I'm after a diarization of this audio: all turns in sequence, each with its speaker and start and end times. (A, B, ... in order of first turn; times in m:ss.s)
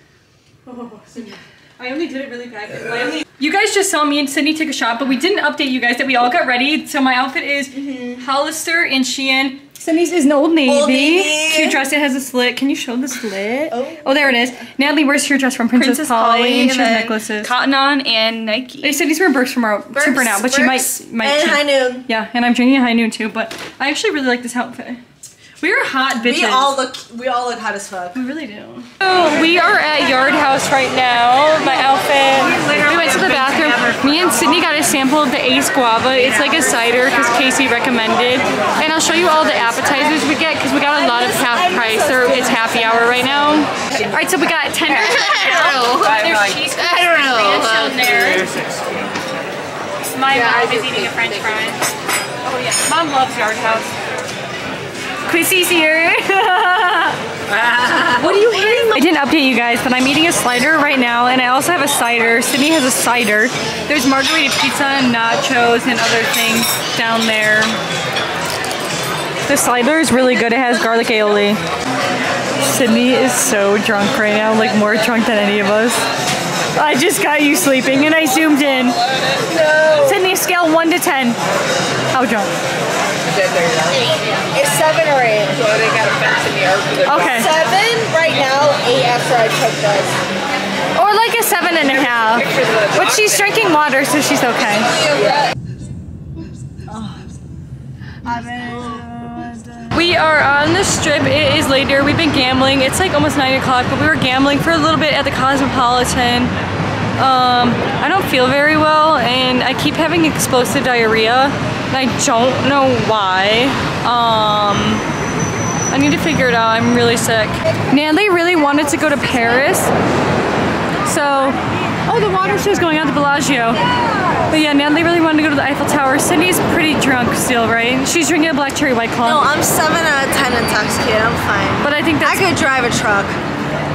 0:00.6-0:17.5 A
0:07.8-0:08.2 B
0:10.6-0:11.9 B
0:13.7-0:14.7 B
0:15.8-0:19.0 C
0:18.8-0:25.0 A
0:19.9-0:22.1 B
0:25.6-0:26.8 A
0:26.1-0:28.2 B
0:28.1-0:48.5 A
0:32.6-0:33.0 C
0:41.0-0:43.6 B
0:45.0-0:48.1 C
0:50.0-0:51.8 A
0:50.3-0:51.8 C
0:52.5-0:52.8 C
0:52.8-0:53.8 A
0:53.6-0:53.9 C
0:55.2-0:57.2 A
0:57.9-1:07.8 A
0:58.2-0:58.9 C
0:58.5-0:58.9 B
1:09.4-1:11.6 A
1:12.6-1:16.0 A
1:16.8-1:19.0 A
1:19.4-1:20.2 B
1:20.0-1:21.4 A
1:22.1-1:22.5 A
1:24.0-1:25.8 B
1:25.8-1:27.0 C
1:27.0-1:27.6 A
1:27.2-1:30.2 B
1:30.9-1:35.0 A
1:35.1-1:35.4 B
1:36.9-1:37.3 B
1:38.2-1:39.9 B
1:39.9-1:46.5 A
1:47.2-1:55.0 A
1:55.9-1:59.9 A
2:01.0-2:03.8 A
2:04.5-2:09.5 A
2:09.2-2:13.4 B
2:11.8-2:12.5 A